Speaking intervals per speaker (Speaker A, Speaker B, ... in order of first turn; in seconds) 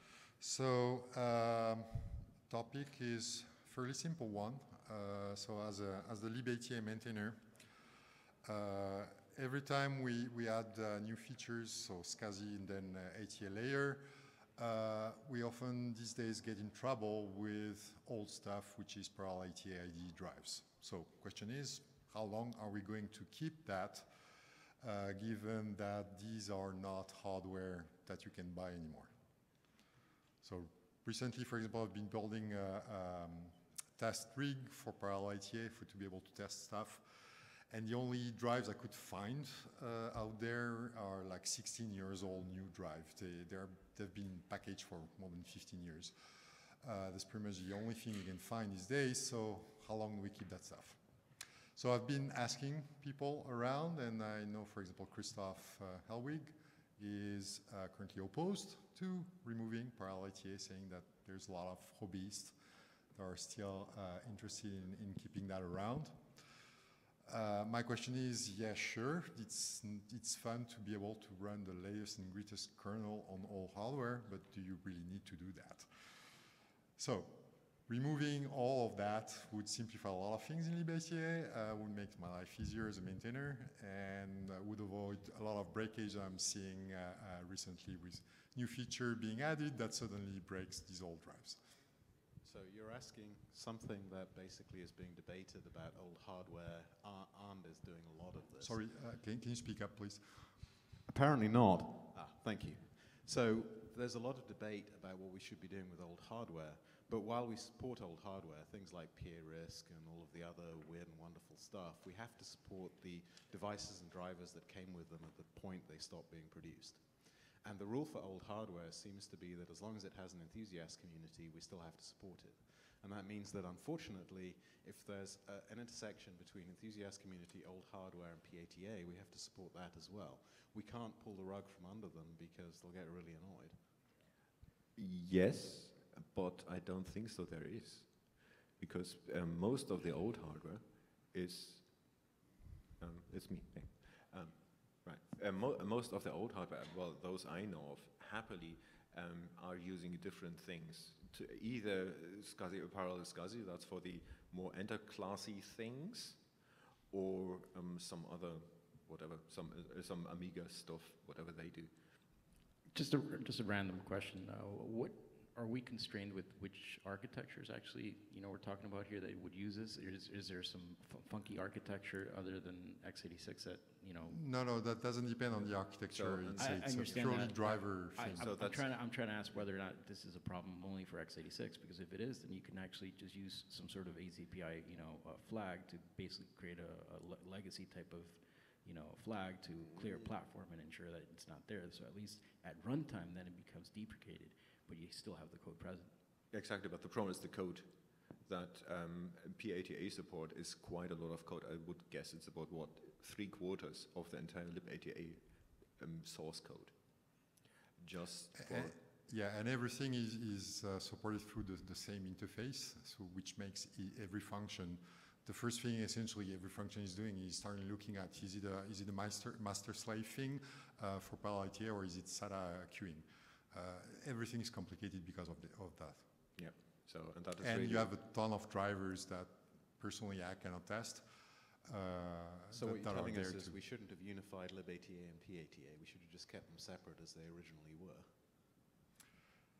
Speaker A: 0.4-7.4, 8.4-14.0, 14.6-24.1, 24.8-29.1, 30.4-46.1, 46.8-51.0, 51.8-62.5, 63.1-66.2, 67.2-76.4, 77.0-91.6, 98.6-100.6, 174.2-178.5, 208.6-226.3, 227.6-231.2, 231.8-233.8
Speaker B: 92.4-98.8, 101.1-133.7, 232.7-238.2
Speaker C: 134.9-142.1, 143.0-156.5, 157.1-161.9, 175.6-177.7, 178.4-179.7, 189.8-190.4, 196.5-205.4, 205.9-206.9, 208.0-208.9, 226.6-228.1
Speaker D: 162.9-174.4, 176.6-196.1